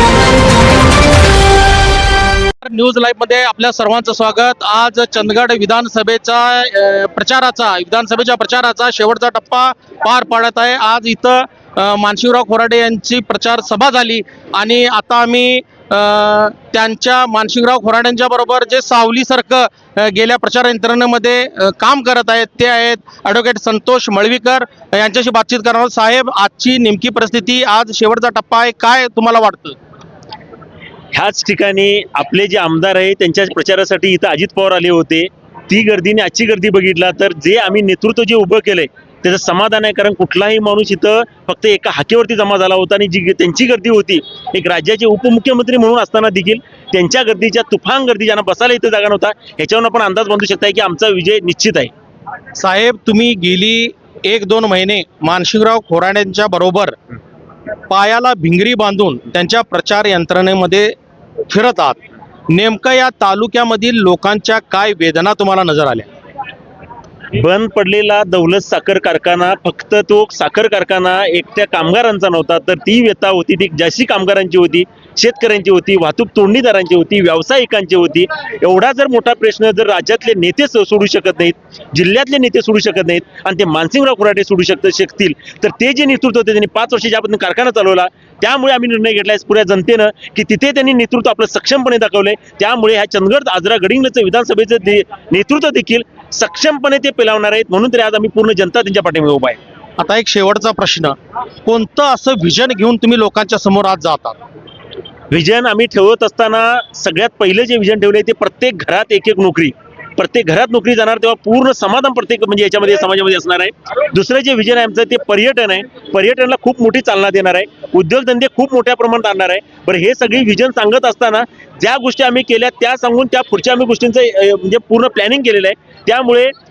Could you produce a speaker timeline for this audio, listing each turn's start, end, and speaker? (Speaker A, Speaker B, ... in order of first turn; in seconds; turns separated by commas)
Speaker A: 2.6-29.8, Speaker B: 31.1-51.9, Speaker A: 52.6-57.0, Speaker A: 57.9-61.0, Speaker A: 61.5-62.0, Speaker A: 62.5-66.1, Speaker B: 67.3-99.6, Speaker A: 100.0-104.4, Speaker B: 105.3-126.5